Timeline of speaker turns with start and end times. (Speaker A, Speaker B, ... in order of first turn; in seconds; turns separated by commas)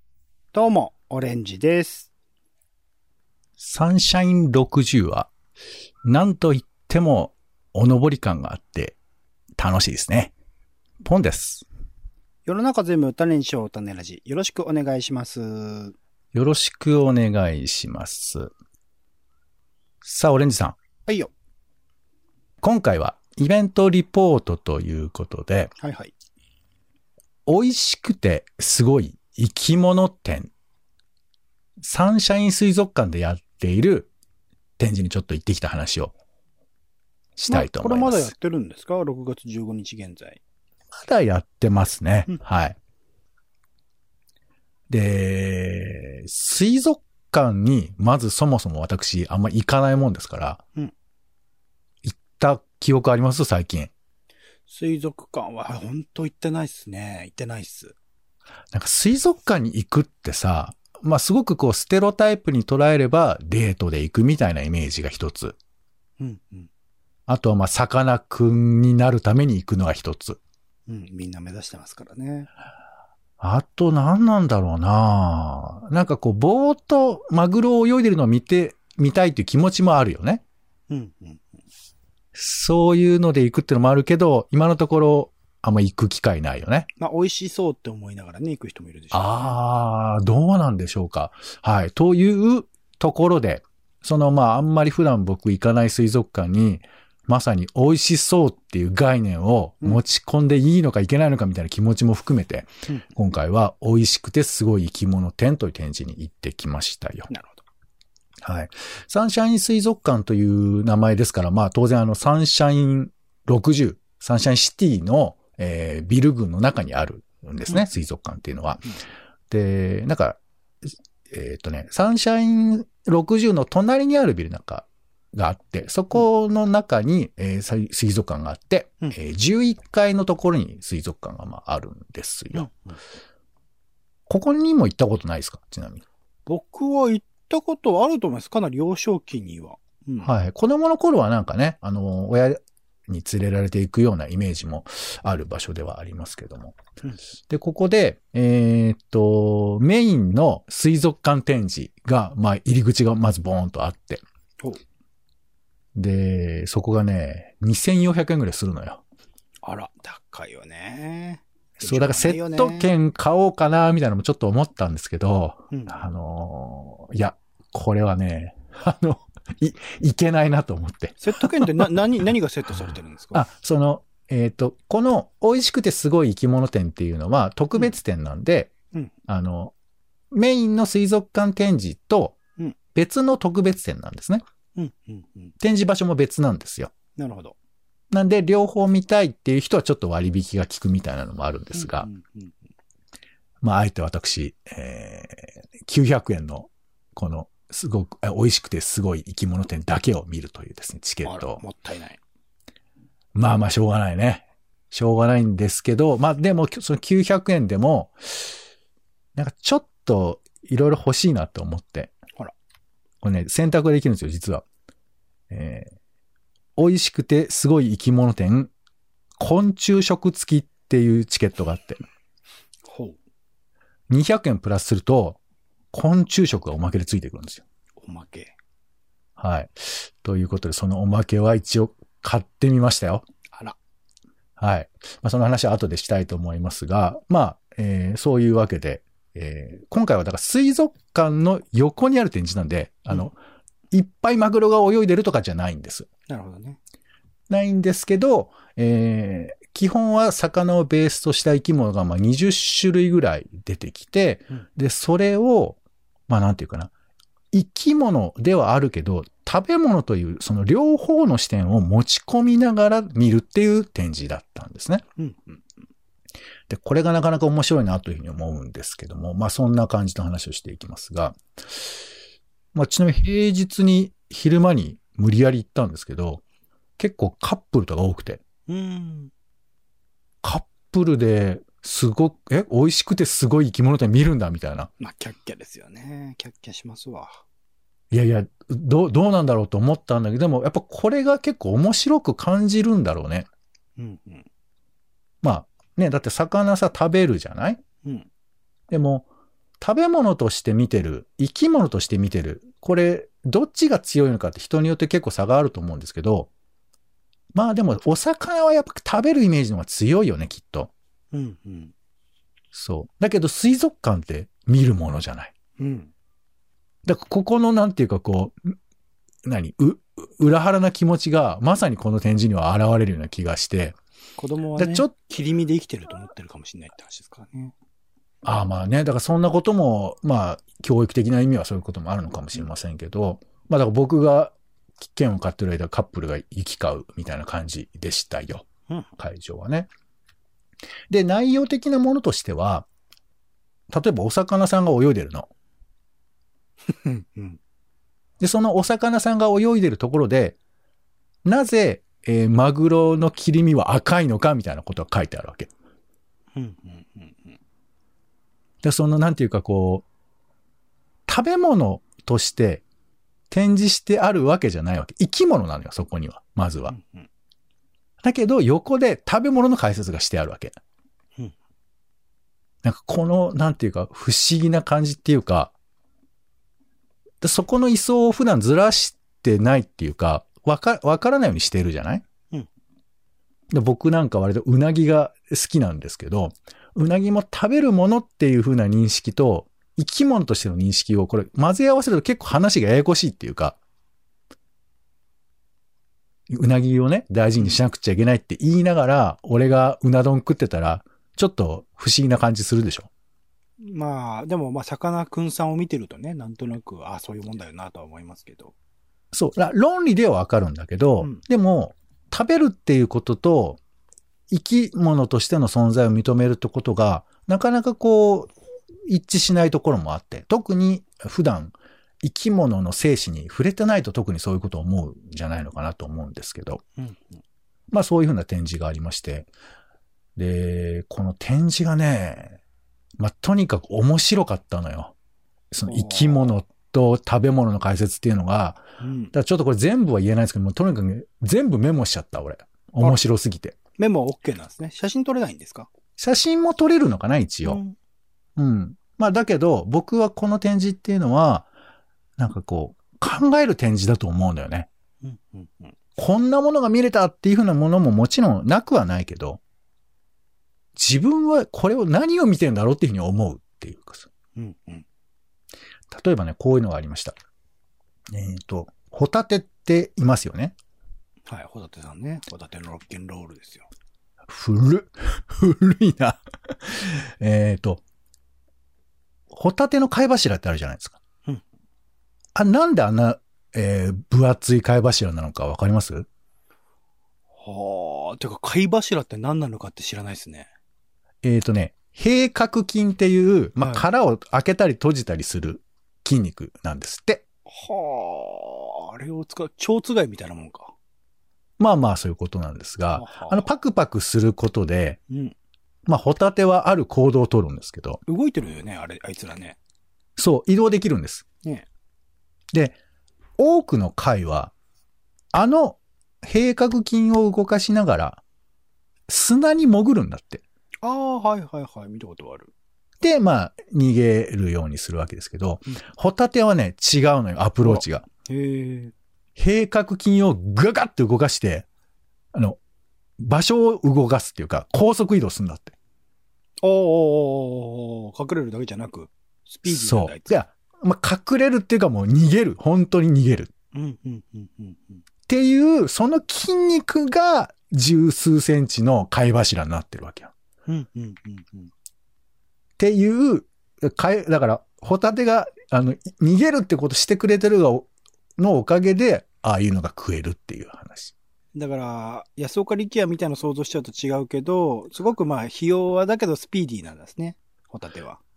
Speaker A: 0.5-2.1, Speaker B: 3.6-5.3, Speaker B: 6.0-9.0, Speaker B: 9.6-10.3, Speaker B: 11.0-11.7, Speaker A: 12.5-16.0, Speaker B: 16.3-18.5, Speaker B: 20.0-20.8, Speaker B: 22.6-25.7, Speaker A: 25.8-26.1, Speaker B: 27.5-30.5, Speaker B: 31.8-34.1, Speaker B: 34.8-36.1, Speaker B: 37.4-38.3, Speaker A: 37.5-40.4, Speaker B: 40.9-42.8, Speaker B: 44.9-50.6, Speaker B: 52.0-53.9, Speaker A: 54.7-58.0, Speaker B: 58.7-65.6, Speaker A: 66.2-66.7, Speaker B: 67.3-70.4, Speaker A: 70.9-72.5, Speaker B: 73.4-80.4, Speaker A: 80.9-81.6, Speaker B: 82.3-86.9, Speaker A: 87.0-89.6, Speaker B: 89.1-107.3, Speaker A: 107.3-107.6, Speaker B: 108.4-118.9, Speaker B: 119.5-120.4, Speaker B: 121.3-132.7, Speaker A: 132.6-133.0, Speaker B: 134.3-136.0, Speaker A: 136.5-140.3, Speaker B: 140.2-146.8, Speaker B: 147.5-154.2, Speaker B: 155.9-159.0, Speaker A: 159.6-162.9, Speaker B: 161.8-171.9, Speaker A: 171.2-173.5, Speaker B: 173.3-178.7, Speaker B: 179.3-179.7, Speaker B: 180.3-182.4, Speaker B: 182.9-184.4, Speaker A: 184.8-185.5, Speaker B: 185.6-186.9, Speaker A: 187.2-187.6, Speaker B: 188.1-192.1, Speaker A: 191.8-192.6, Speaker B: 193.6-201.6, Speaker A: 201.2-202.2, Speaker B: 203.3-208.6, Speaker B: 209.3-212.1, Speaker B: 213.2-214.6, Speaker B: 215.5-215.9, Speaker B: 216.8-218.7, Speaker B: 219.4-222.0, Speaker A: 222.9-223.2, Speaker B: 224.1-225.4, Speaker B: 225.9-227.6, Speaker A: 228.0-228.5, Speaker B: 229.4-233.2, Speaker B: 234.6-243.4, Speaker B: 243.9-246.1, Speaker A: 246.3-246.8, Speaker B: 247.5-256.9, Speaker B: 257.5-265.0, Speaker A: 265.2-265.6, Speaker B: 266.7-271.9, Speaker B: 272.7-276.4, Speaker B: 277.0-278.4, Speaker A: 278.7-279.3, Speaker B: 280.4-284.9, Speaker A: 285.0-287.4, Speaker B: 288.1-293.5, Speaker A: 294.0-294.5, Speaker B: 295.4-297.8, Speaker A: 298.0-298.3, Speaker B: 298.9-299.3, Speaker B: 299.8-306.5, Speaker B: 307.5-310.9, Speaker A: 311.3-311.9, Speaker B: 312.7-315.5, Speaker A: 315.8-316.1, Speaker B: 317.1-318.8, Speaker B: 319.4-324.0, Speaker A: 324.4-327.7, Speaker B: 324.8-325.1, Speaker B: 328.4-338.7, Speaker B: 339.2-339.9, Speaker B: 341.1-342.9, Speaker B: 343.9-345.5, Speaker A: 346.9-347.6, Speaker B: 348.4-350.6, Speaker B: 351.4-355.7, Speaker A: 356.6-357.6, Speaker B: 358.8-360.1, Speaker B: 361.3-362.8, Speaker B: 363.5-367.0, Speaker A: 366.9-367.3, Speaker B: 368.2-370.7, Speaker B: 372.8-375.7, Speaker B: 377.4-382.2, Speaker B: 383.7-393.8, Speaker B: 396.5-403.1, Speaker A: 403.8-408.7, Speaker B: 409.3-413.8, Speaker B: 414.5-426.8, Speaker A: 427.0-427.4, Speaker B: 427.9-429.5, Speaker B: 430.4-432.6, Speaker B: 433.2-435.1, Speaker B: 435.7-443.8, Speaker A: 435.9-436.5, Speaker A: 439.0-439.3, Speaker A: 444.0-445.9, Speaker B: 446.2-447.8, Speaker A: 447.6-447.9, Speaker B: 448.6-451.7, Speaker B: 452.4-454.9, Speaker A: 455.2-455.9, Speaker B: 456.2-459.6, Speaker B: 460.9-464.3, Speaker A: 464.6-465.1, Speaker B: 466.1-467.4, Speaker B: 468.3-470.8, Speaker A: 471.5-473.9, Speaker B: 474.5-478.0, Speaker B: 479.5-481.2, Speaker B: 482.6-486.3, Speaker A: 487.6-490.7, Speaker B: 491.4-497.4, Speaker A: 497.7-500.9, Speaker B: 501.8-505.2, Speaker A: 503.1-503.6, Speaker B: 506.1-508.2, Speaker A: 508.3-509.8, Speaker B: 510.4-511.4, Speaker B: 513.6-514.7, Speaker B: 515.5-518.4, Speaker B: 519.3-520.6, Speaker A: 521.0-522.7, Speaker B: 523.2-528.3, Speaker A: 527.8-529.1, Speaker B: 529.6-531.9, Speaker B: 532.5-532.8, Speaker B: 533.4-536.0, Speaker A: 536.8-540.5, Speaker B: 539.9-543.7, Speaker A: 543.9-545.2, Speaker B: 545.5-550.5, Speaker A: 550.9-551.9, Speaker B: 553.0-561.3, Speaker A: 561.8-568.4